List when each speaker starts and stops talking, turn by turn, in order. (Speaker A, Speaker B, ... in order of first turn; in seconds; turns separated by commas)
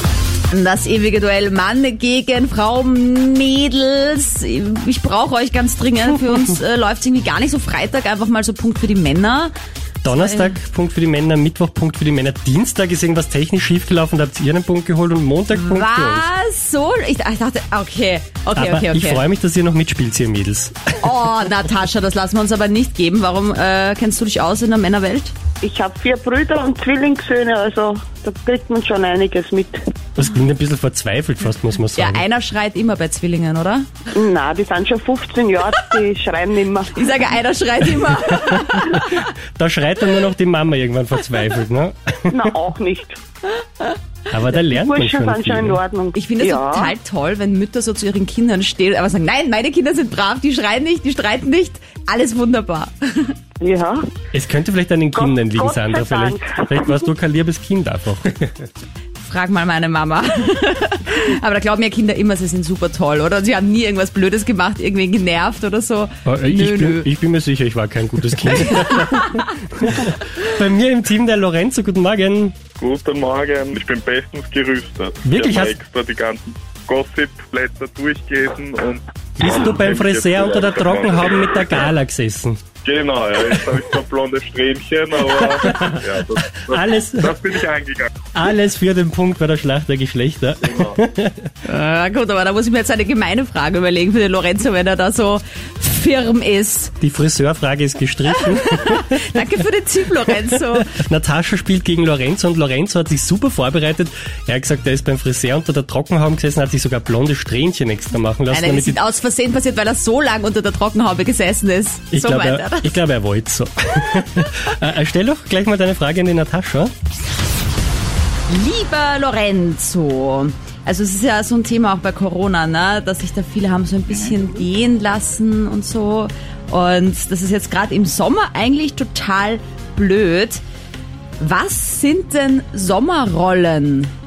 Speaker A: 0.5-9.5, Speaker B: 10.0-16.2, Speaker A: 10.1-10.6, Speaker A: 15.6-19.2, Speaker B: 18.6-20.8, Speaker A: 21.0-25.3, Speaker C: 25.6-29.8, Speaker B: 30.1-32.2, Speaker A: 31.9-33.9, Speaker C: 34.1-37.0, Speaker A: 36.9-39.1, Speaker B: 38.7-42.5, Speaker C: 42.3-43.2, Speaker B: 44.3-45.8, Speaker C: 44.6-46.9, Speaker A: 46.1-53.3, Speaker C: 53.6-54.0, Speaker B: 54.3-58.4, Speaker C: 55.1-56.8, Speaker A: 59.2-67.1, Speaker B: 66.2-72.5, Speaker D: 72.8-81.8, Speaker B: 75.2-75.7, Speaker B: 79.4-82.6, Speaker D: 82.8-88.1, Speaker B: 85.3-86.0, Speaker B: 86.7-87.4, Speaker B: 88.3-91.3, Speaker D: 90.6-91.0, Speaker A: 91.6-96.9, Speaker B: 97.0-99.2, Speaker A: 98.4-100.9, Speaker B: 100.5-109.0, Speaker A: 108.5-112.9, Speaker B: 112.1-116.9, Speaker A: 118.5-130.6, Speaker A: 131.4-134.1